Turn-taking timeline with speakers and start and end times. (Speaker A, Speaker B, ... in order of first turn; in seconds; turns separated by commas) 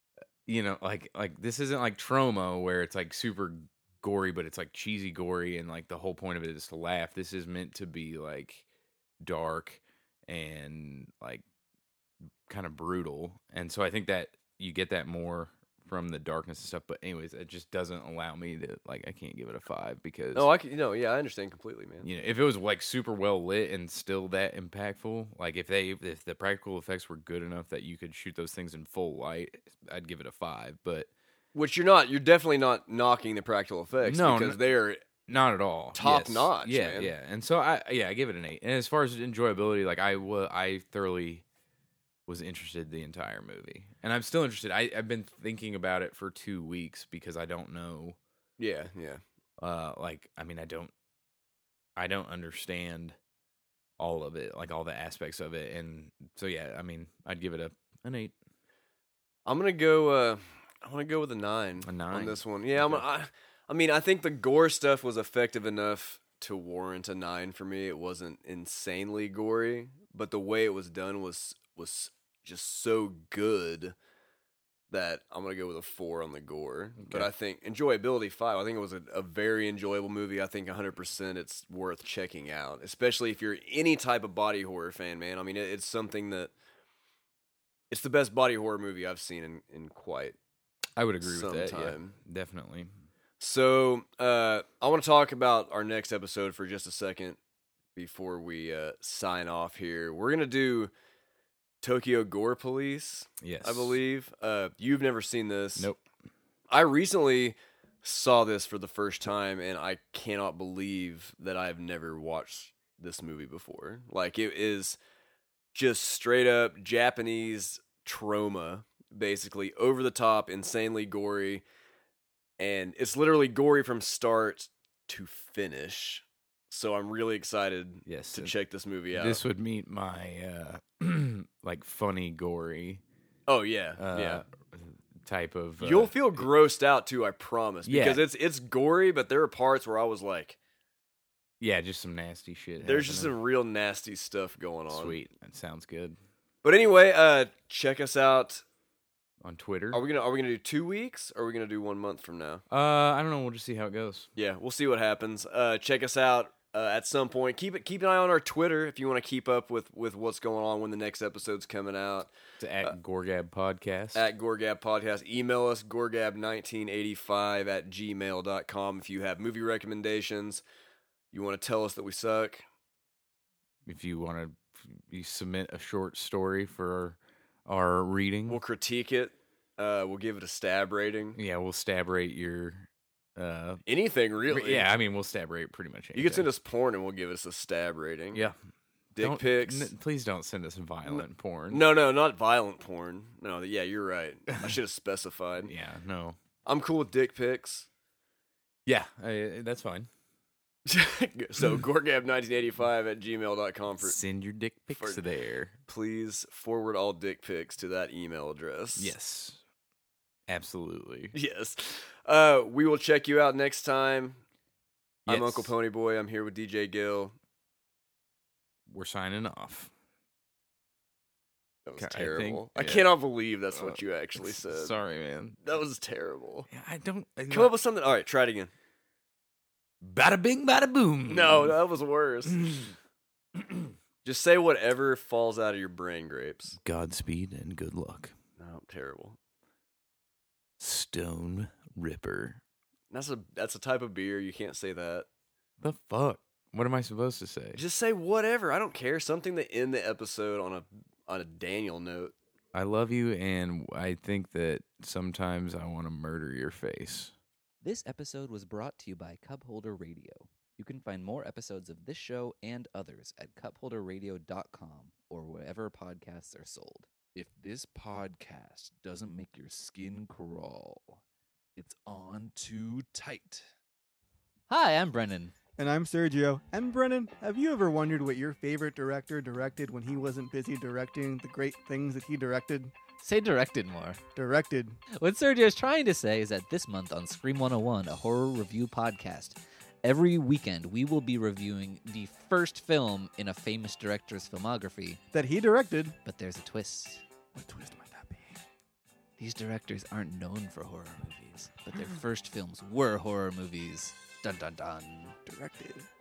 Speaker A: 0.5-8.6, Speaker A: 9.2-11.4, Speaker A: 12.5-20.5, Speaker B: 20.3-22.1, Speaker A: 22.0-31.1, Speaker B: 31.5-35.0, Speaker A: 34.0-34.6, Speaker A: 35.2-41.4, Speaker B: 35.9-37.1, Speaker A: 42.3-48.2, Speaker B: 48.6-49.2, Speaker A: 49.6-50.9, Speaker A: 52.0-53.1, Speaker A: 54.0-58.3, Speaker B: 59.5-73.9, Speaker A: 61.8-63.0, Speaker B: 74.9-86.5, Speaker A: 77.0-77.3, Speaker B: 87.9-90.4, Speaker A: 91.0-92.9, Speaker B: 91.2-92.2, Speaker B: 93.4-97.4, Speaker B: 98.0-100.9, Speaker B: 101.8-105.9, Speaker A: 103.4-104.0, Speaker A: 105.8-106.0, Speaker B: 106.7-115.0, Speaker B: 115.7-121.6, Speaker B: 122.6-129.4, Speaker A: 128.1-128.5, Speaker A: 129.1-133.0, Speaker B: 133.5-134.4, Speaker A: 134.0-136.5, Speaker B: 135.8-140.6, Speaker A: 137.8-138.2, Speaker A: 141.6-143.3, Speaker B: 142.8-145.2, Speaker A: 144.9-146.2, Speaker B: 146.6-148.6, Speaker A: 149.4-150.0, Speaker B: 149.9-152.6, Speaker A: 152.7-154.3, Speaker B: 154.3-162.3, Speaker A: 162.6-164.3, Speaker B: 164.1-170.6, Speaker B: 171.3-172.6, Speaker A: 173.8-178.6, Speaker B: 178.5-181.4, Speaker A: 181.3-183.8, Speaker B: 183.8-184.9, Speaker A: 184.5-186.5, Speaker B: 186.1-188.4, Speaker B: 189.1-189.9, Speaker A: 189.2-191.8, Speaker B: 191.1-195.7, Speaker A: 195.7-196.4, Speaker B: 196.6-197.9, Speaker A: 198.8-200.1, Speaker B: 200.9-204.2, Speaker A: 204.0-205.8, Speaker B: 204.9-205.2, Speaker B: 205.9-209.1, Speaker A: 209.0-209.6, Speaker A: 210.5-211.3, Speaker B: 211.3-214.4, Speaker B: 215.2-217.3, Speaker A: 215.3-215.7, Speaker A: 218.9-219.9, Speaker B: 221.8-224.9, Speaker A: 222.0-223.1, Speaker A: 223.7-225.6, Speaker B: 225.6-226.7, Speaker A: 226.7-227.7, Speaker B: 227.5-228.7, Speaker A: 230.0-231.8, Speaker B: 231.3-232.6, Speaker A: 232.4-232.9, Speaker A: 233.6-233.9, Speaker B: 234.2-236.8, Speaker A: 236.8-238.3, Speaker B: 238.6-239.4, Speaker A: 240.8-242.6, Speaker B: 243.1-245.3, Speaker A: 245.8-247.8, Speaker B: 247.7-252.3, Speaker A: 252.7-257.3, Speaker C: 257.8-271.2, Speaker C: 271.8-273.6, Speaker C: 274.7-275.5, Speaker D: 275.8-282.9, Speaker C: 283.2-284.2, Speaker D: 284.3-285.0, Speaker C: 285.2-295.2, Speaker D: 295.3-296.1, Speaker C: 296.2-297.2, Speaker D: 297.5-298.6, Speaker C: 299.4-305.4, Speaker D: 305.4-306.1